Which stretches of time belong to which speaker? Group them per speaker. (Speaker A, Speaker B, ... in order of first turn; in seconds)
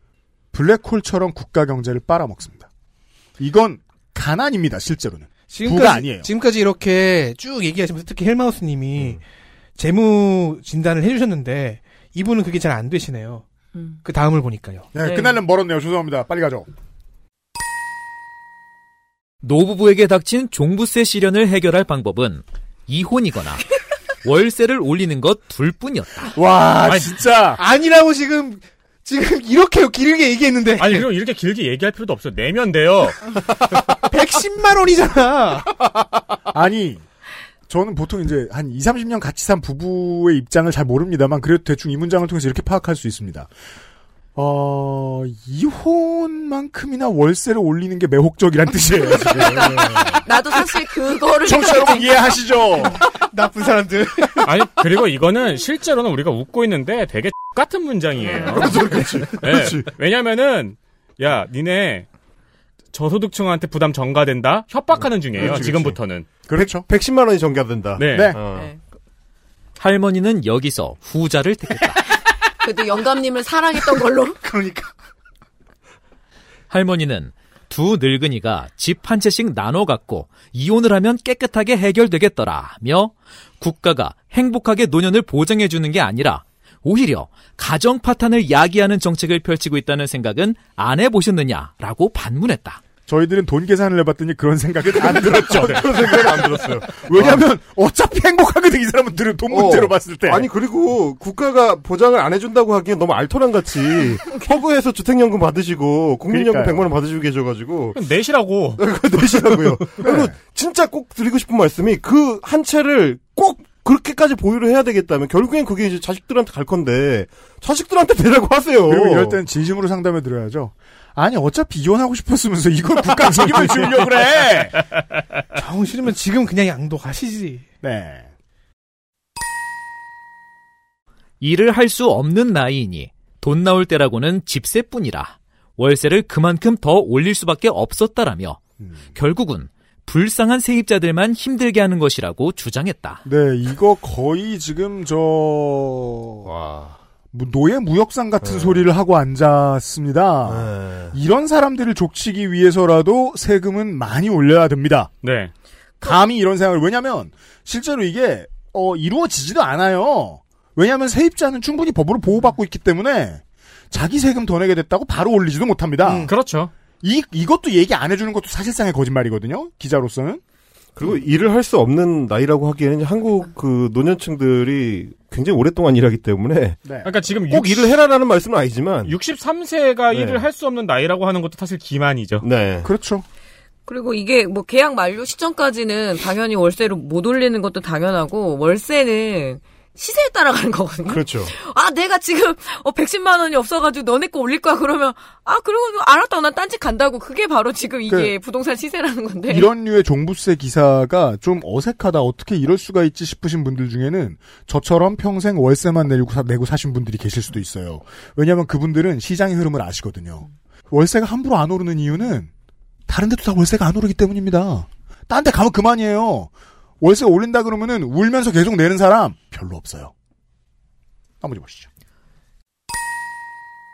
Speaker A: 0.5-2.7, 3.4-6.3, 14.9-16.7, 26.4-27.6, 36.5-37.0, 37.7-43.5, 44.4-50.2, 51.4-53.0, 66.5-66.9, 68.1-68.4, 74.5-74.8, 93.1-100.5, 106.3-106.9, 110.0-110.3, 118.9-124.8, 127.8-128.3, 143.2-146.5, 147.3-155.1, 156.0-166.3, 167.0-170.4, 176.8-177.1, 182.8-183.2, 199.5-212.5, 213.1-220.1, 221.4-221.9
Speaker B: 5.5-9.2, 9.8-13.4, 14.0-14.9, 27.6-31.1, 33.9-35.7, 53.1-54.5, 125.5-127.6, 166.0-166.3
Speaker C: 15.0-15.4, 50.2-52.2, 72.6-74.4, 183.9-199.7
Speaker D: 19.4-23.6, 24.2-26.3, 69.8-72.0, 76.7-92.8, 131.4-138.6, 139.2-143.2
Speaker E: 30.8-33.2, 54.4-58.8, 59.3-62.1, 62.9-66.3, 68.0-68.3, 108.0-108.8, 155.2-155.5, 166.3-166.7, 177.0-178.0, 179.1-182.4
Speaker F: 49.4-50.1, 58.5-59.9, 65.3-66.0, 66.5-68.7, 95.0-97.5, 99.5-108.0, 108.8-119.4, 146.4-147.0, 148.4-148.8, 150.5-151.2, 171.0-176.8, 177.5-179.2, 180.1-180.5, 182.4-182.9, 191.1-191.5